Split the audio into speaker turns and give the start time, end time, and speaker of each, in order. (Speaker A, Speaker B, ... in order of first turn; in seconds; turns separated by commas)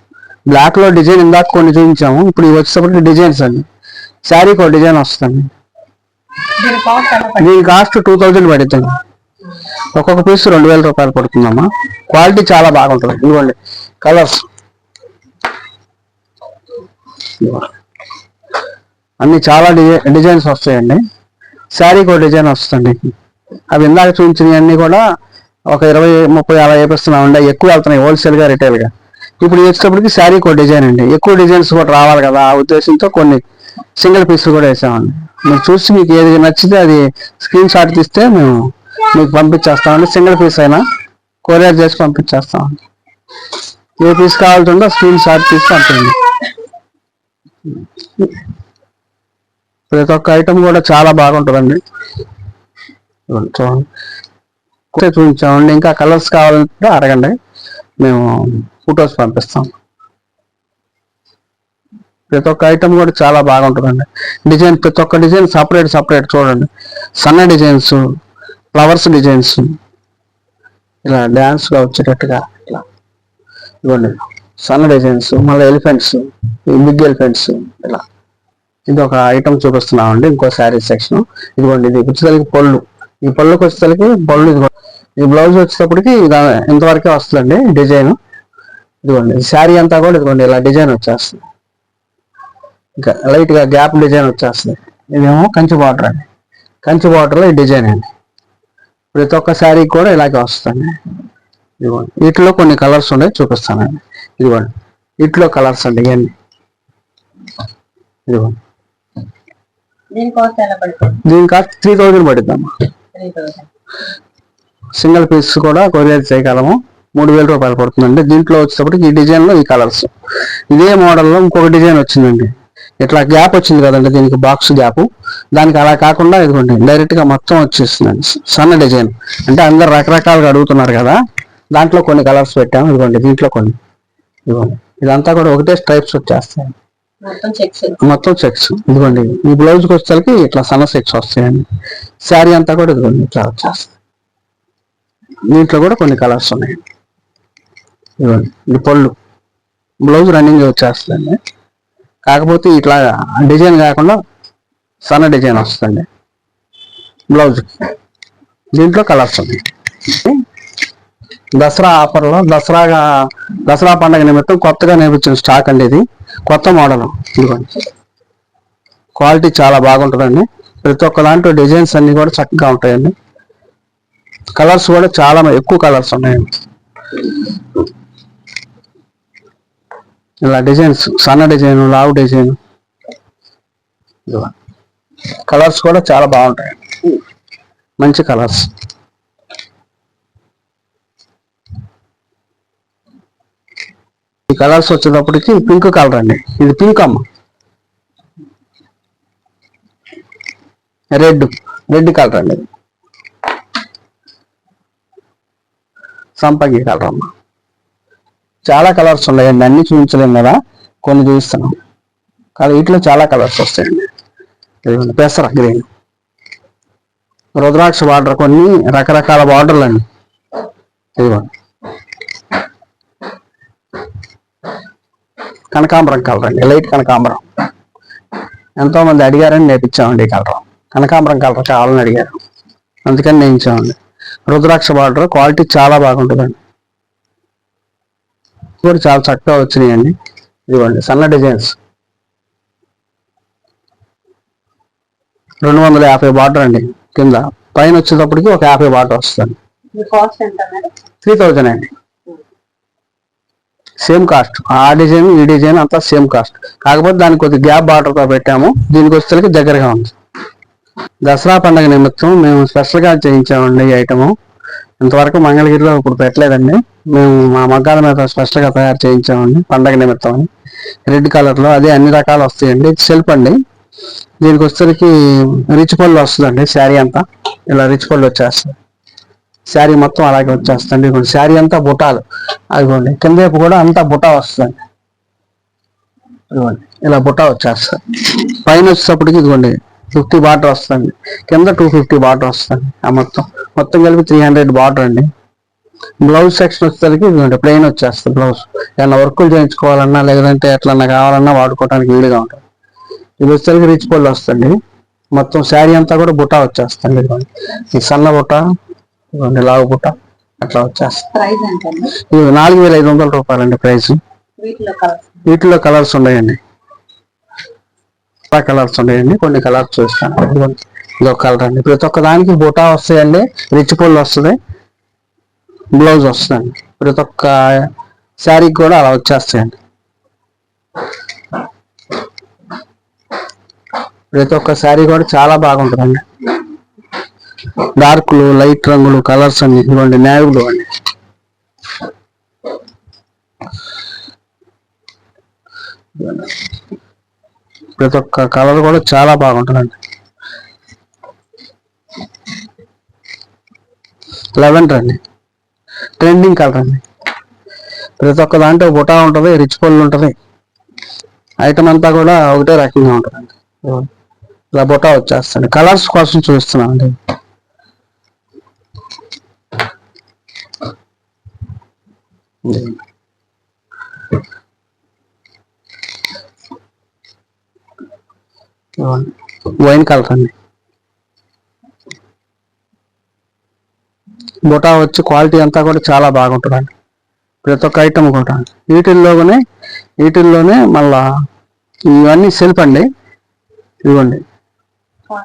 Speaker A: 0.5-3.7, Speaker A: 4.3-5.5, Speaker B: 6.6-7.5, Speaker A: 7.4-8.9, Speaker A: 10.0-14.4, Speaker A: 17.4-17.7, Speaker A: 19.2-21.0, Speaker A: 21.8-23.1, Speaker A: 23.7-25.0, Speaker A: 25.7-28.9, Speaker A: 29.4-33.4, Speaker A: 34.0-40.8, Speaker A: 41.5-42.8, Speaker A: 44.0-46.2, Speaker A: 49.9-51.8, Speaker A: 53.3-53.9, Speaker A: 54.9-57.4, Speaker A: 58.0-59.7, Speaker A: 62.3-68.0, Speaker A: 68.7-69.8, Speaker A: 71.0-72.8, Speaker A: 73.8-78.0, Speaker A: 78.9-88.2, Speaker A: 89.0-91.4, Speaker A: 93.0-96.3, Speaker A: 96.8-98.1, Speaker A: 99.1-101.0, Speaker A: 101.8-104.7, Speaker A: 105.2-106.3, Speaker A: 108.3-108.6, Speaker B: 110.1-111.2, Speaker A: 111.3-112.7, Speaker B: 113.2-113.7, Speaker A: 115.0-120.1, Speaker A: 120.7-131.2, Speaker A: 131.7-133.8, Speaker A: 134.5-136.8, Speaker B: 137.2-138.0, Speaker A: 138.0-141.7, Speaker A: 142.2-143.9, Speaker A: 145.5-146.8, Speaker A: 148.2-149.1, Speaker A: 150.0-151.4, Speaker A: 152.3-154.2, Speaker A: 155.1-156.1, Speaker A: 157.3-157.7, Speaker A: 158.8-160.4, Speaker A: 161.6-167.7, Speaker A: 169.2-173.1, Speaker A: 174.6-176.6, Speaker A: 180.4-182.6, Speaker A: 184.3-184.5, Speaker A: 185.5-186.8, Speaker A: 188.0-188.7, Speaker A: 194.5-197.2, Speaker A: 201.1-202.7, Speaker A: 206.4-207.3, Speaker A: 208.7-211.8, Speaker A: 212.6-214.1, Speaker A: 214.8-215.9, Speaker A: 217.6-220.1, Speaker A: 221.2-221.5, Speaker A: 225.7-227.4, Speaker A: 228.8-232.4, Speaker A: 233.1-236.6, Speaker A: 238.8-240.1, Speaker A: 240.7-241.8, Speaker A: 245.6-249.6, Speaker B: 249.9-250.9, Speaker A: 251.2-251.9, Speaker A: 254.0-260.1, Speaker A: 261.2-264.3, Speaker A: 265.0-270.5, Speaker A: 271.1-273.6, Speaker A: 274.4-278.8, Speaker A: 279.7-282.2, Speaker A: 282.7-284.8, Speaker A: 286.5-295.3, Speaker A: 296.2-302.6, Speaker A: 303.4-304.8, Speaker A: 305.4-308.6, Speaker A: 309.3-311.3, Speaker B: 311.3-312.1, Speaker A: 312.2-314.2, Speaker B: 314.6-315.3, Speaker A: 315.5-316.6, Speaker A: 318.5-324.6, Speaker A: 325.9-327.9, Speaker A: 328.4-329.8, Speaker A: 334.3-336.2, Speaker A: 338.0-340.9, Speaker A: 346.2-346.5, Speaker A: 348.0-350.0, Speaker A: 354.6-355.2, Speaker A: 356.2-357.0, Speaker A: 358.2-360.3, Speaker A: 361.6-364.1, Speaker A: 364.7-367.2, Speaker A: 372.6-373.0, Speaker A: 379.0-380.5, Speaker A: 384.7-386.9, Speaker A: 387.6-389.6, Speaker A: 390.2-391.2, Speaker A: 392.1-393.1, Speaker A: 394.1-394.4